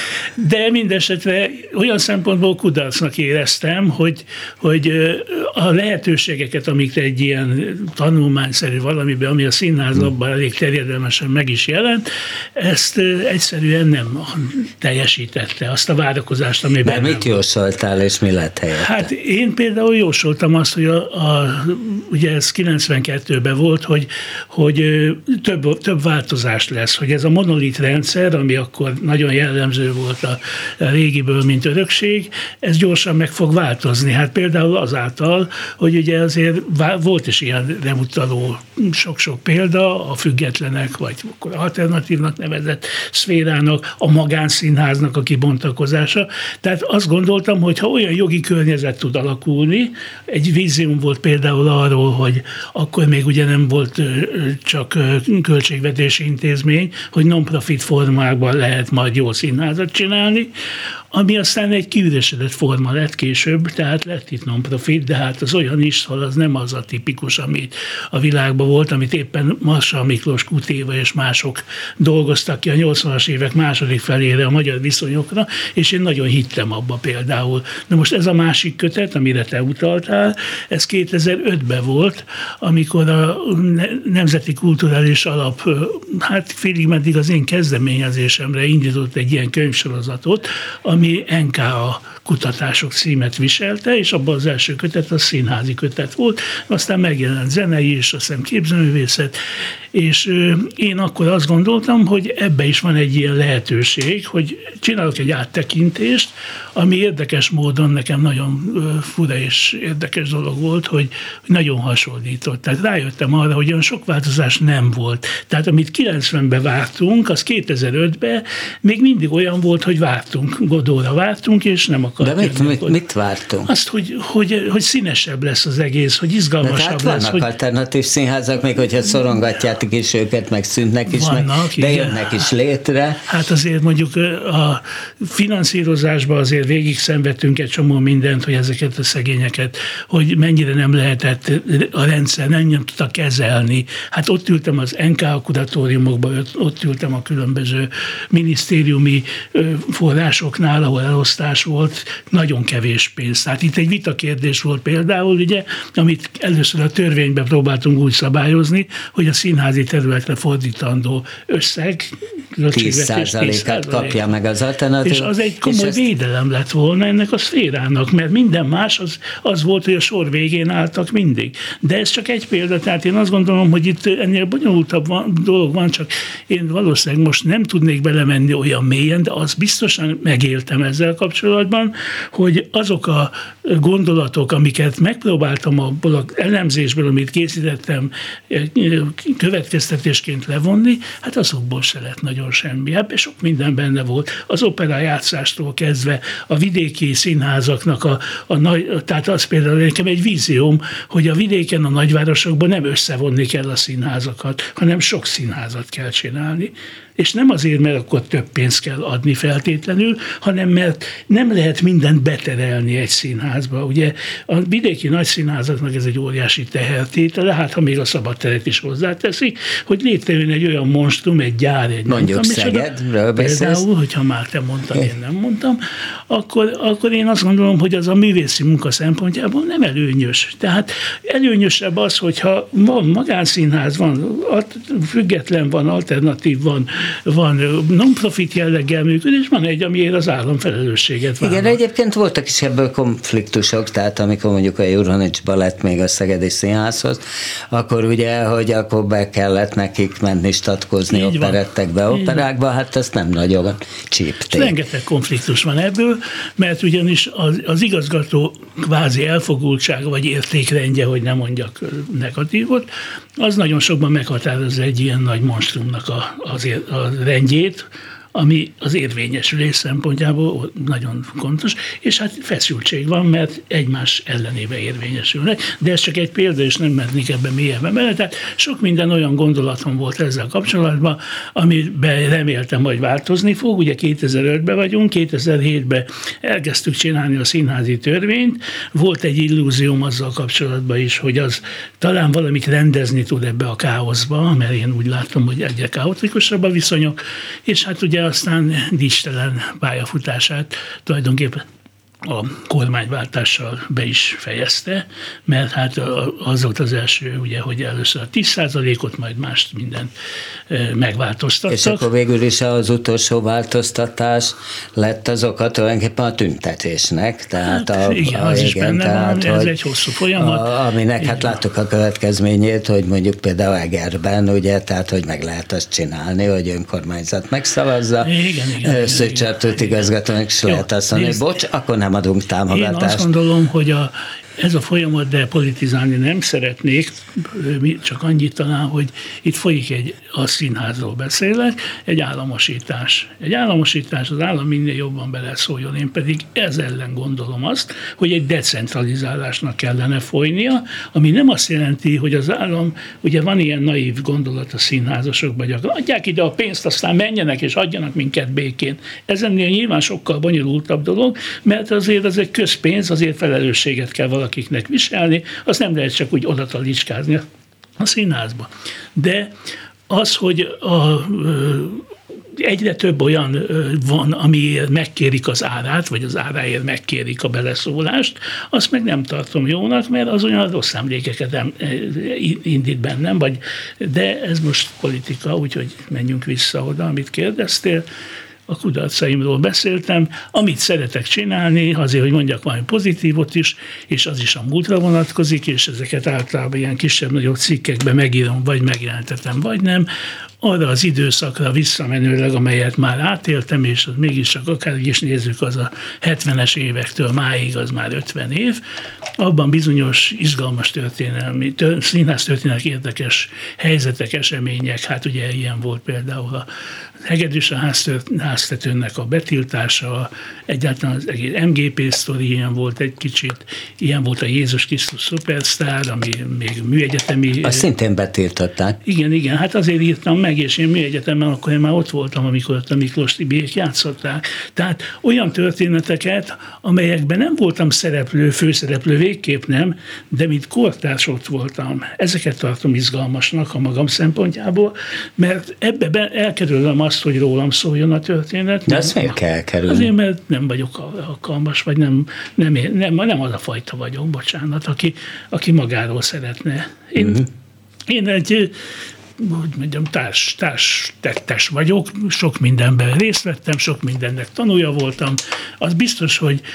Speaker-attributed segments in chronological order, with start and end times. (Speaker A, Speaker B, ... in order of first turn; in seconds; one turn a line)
Speaker A: 0.4-17.4
Speaker B: 16.8-19.1
Speaker A: 18.8-60.5
Speaker A: 61.1-99.4
Speaker A: 99.9-123.0
Speaker B: 122.2-123.7
Speaker A: 123.7-127.5
Speaker B: 126.6-133.2
Speaker A: 131.1-132.4
Speaker A: 133.3-164.3
Speaker B: 162.7-166.0
Speaker A: 165.0-222.9
Speaker B: 222.1-223.8
Speaker A: 223.4-241.8
Speaker B: 241.4-254.7
Speaker A: 251.1-251.6
Speaker A: 252.1-252.4
Speaker A: 254.5-301.6
Speaker A: 302.2-310.1
Speaker A: 310.7-312.1
Speaker B: 311.7-319.7
Speaker A: 317.7-320.7
Speaker B: 320.4-333.3
Speaker A: 321.2-321.6
Speaker A: 328.2-330.1
Speaker A: 330.7-331.4
Speaker A: 332.7-367.4
Speaker A: 368.0-369.5
Speaker A: 370.1-372.1
Speaker A: 372.6-388.1
Speaker A: 388.7-400.1
Speaker A: 400.6-408.8
Speaker A: 409.4-416.7
Speaker A: 417.2-427.9
Speaker B: 427.6-429.0
Speaker A: 429.1-449.4
Speaker B: 448.9-450.1
Speaker A: 449.9-457.4
Speaker B: 457.2-457.5
Speaker A: 458.1-458.7
Speaker A: 459.4-466.6